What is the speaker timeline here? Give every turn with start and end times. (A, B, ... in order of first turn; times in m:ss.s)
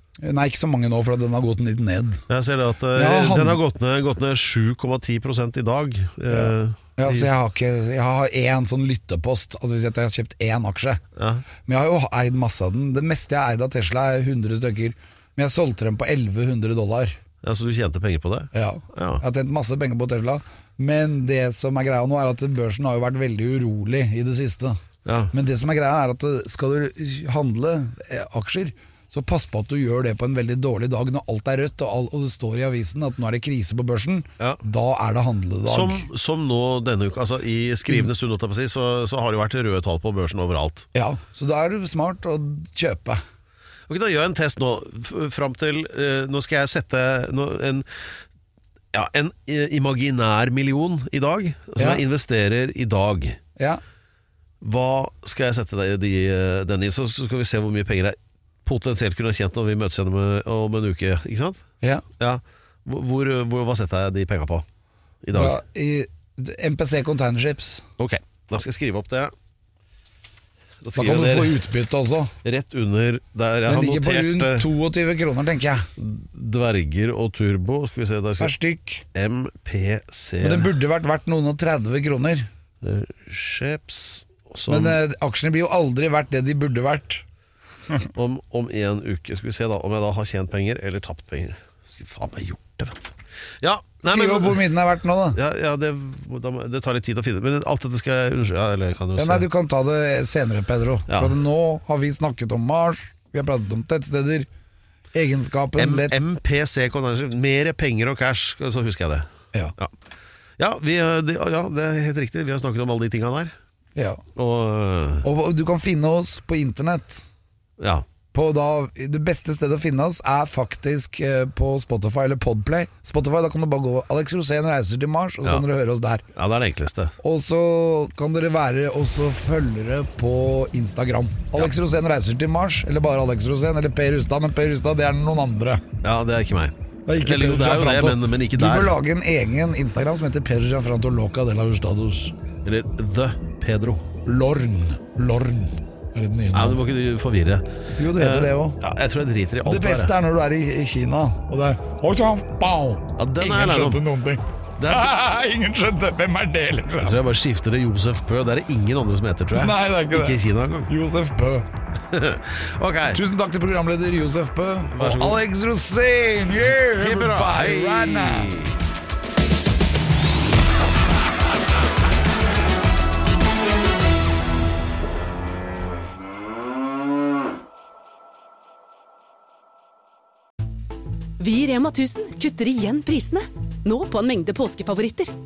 0:00.2-0:02.2 A
0:02.3-0:07.4 B
0:02.9-0:03.6 A
0:06.3-0:11.0 A
0:11.2-0:11.4 B
0:11.6-0:17.2 A
0:17.4-0:19.2 B
0:18.5-0:24.8 A
0:25.0-0:25.3 B
0:25.3-0:36.1 A
0:35.6-0:40.9 B
0:40.9-0:43.2 A
0:43.9-0:47.9 B
0:48.9-0:53.4 B
0:51.8-0:52.0 A
0:54.6-1:01.6 B
1:02.2-1:04.6 B
1:05.2-1:05.6 B
1:05.3-1:07.8 A
1:08.0-1:09.3 B
1:10.8-1:11.6 B
1:10.9-1:12.3 A
1:12.4-1:14.7 B
1:13.6-1:15.9 A
1:16.0-1:18.5 B
1:18.4-1:19.0 A
1:19.1-1:20.7 B
1:20.4-1:22.5 A
1:22.8-1:25.0 B
1:24.7-1:27.2 A
1:28.1-1:33.0 B
1:33.6-1:34.6 B
1:34.0-1:35.4 A
1:35.3-1:39.4 B
1:39.2-1:44.5 A
1:41.1-1:41.3 B
1:45.1-1:46.2 A
1:45.8-1:49.9 B
1:50.6-1:53.5 B
1:53.9-1:54.2 A
1:54.4-1:55.3 B
1:55.2-1:57.3 A
1:57.8-1:58.0 B
1:58.3-2:06.2 A
2:06.3-2:07.1 B
2:07.2-2:15.8 A
2:16.0-2:19.0 B
2:17.1-2:22.3 A
2:22.6-2:24.0 B
2:24.2-2:26.8 A
2:26.5-2:30.1 B
2:27.9-2:28.8 A
2:29.6-2:37.2 A
2:33.2-2:34.0 B
2:34.8-2:35.1 B
2:37.0-2:40.9 B
2:39.5-2:41.6 A
2:42.1-2:43.2 B
2:43.1-2:48.6 A
2:44.9-2:45.4 B
2:46.9-2:48.7 B
3:01.4-3:05.3 C